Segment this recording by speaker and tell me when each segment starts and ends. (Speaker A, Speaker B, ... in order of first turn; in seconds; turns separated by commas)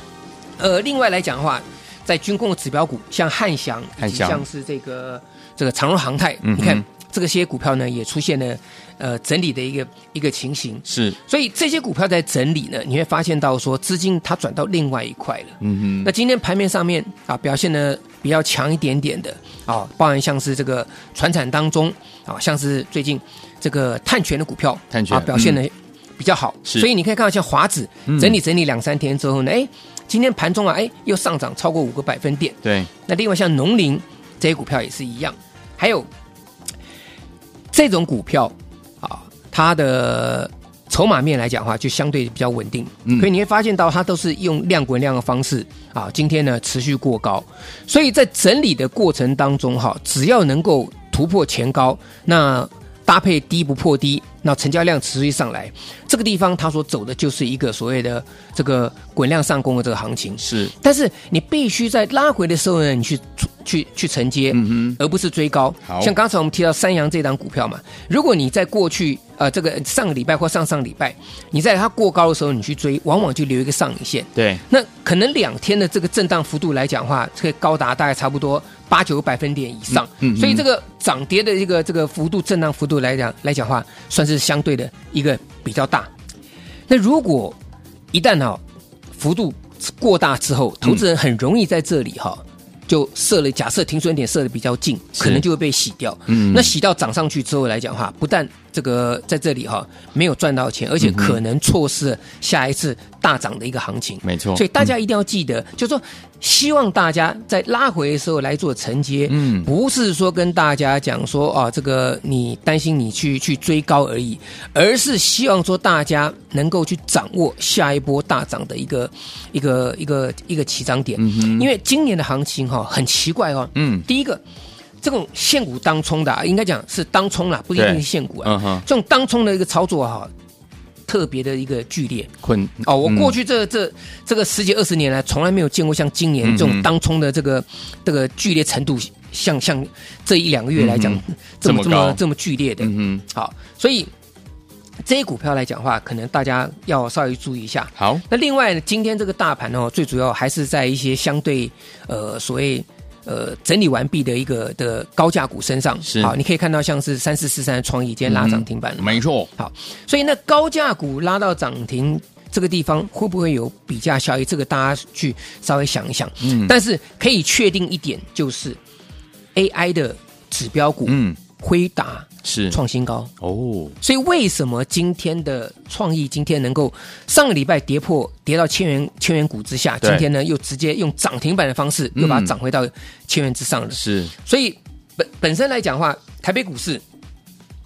Speaker A: 0.6-36.1, Speaker B: 4.0-4.4, Speaker B: 6.4-6.8, Speaker B: 10.8-11.2, Speaker B: 15.6-16.1, Speaker B: 24.9-25.6, Speaker B: 28.1-28.3, Speaker B: 32.6-32.9, Speaker A: 37.7-86.1, Speaker B: 60.4-60.7, Speaker B: 64.5-65.0, Speaker B: 65.8-66.1, Speaker B: 74.3-74.6, Speaker B: 79.9-80.6, Speaker A: 86.9-87.6, Speaker A: 88.1-88.6, Speaker A: 89.1-124.4, Speaker B: 95.2-95.4, Speaker B: 96.3-96.7, Speaker B: 101.0-101.4, Speaker B: 104.2-104.7, Speaker B: 109.3-109.7, Speaker B: 121.2-121.7, Speaker B: 123.7-124.0, Speaker A: 125.0-130.3, Speaker B: 127.7-128.8, Speaker A: 131.1-132.3, Speaker B: 132.4-133.3, Speaker A: 132.8-144.1, Speaker B: 136.4-136.9, Speaker B: 140.8-142.2, Speaker B: 142.8-143.2, Speaker A: 145.0-168.8, Speaker B: 148.0-148.2, Speaker B: 156.0-156.3, Speaker B: 158.2-159.5, Speaker B: 166.4-166.7, Speaker A: 169.5-173.3, Speaker B: 171.1-171.4, Speaker B: 172.4-172.8, Speaker B: 173.4-173.9, Speaker A: 174.0-187.0, Speaker B: 182.1-182.5, Speaker B: 183.9-184.3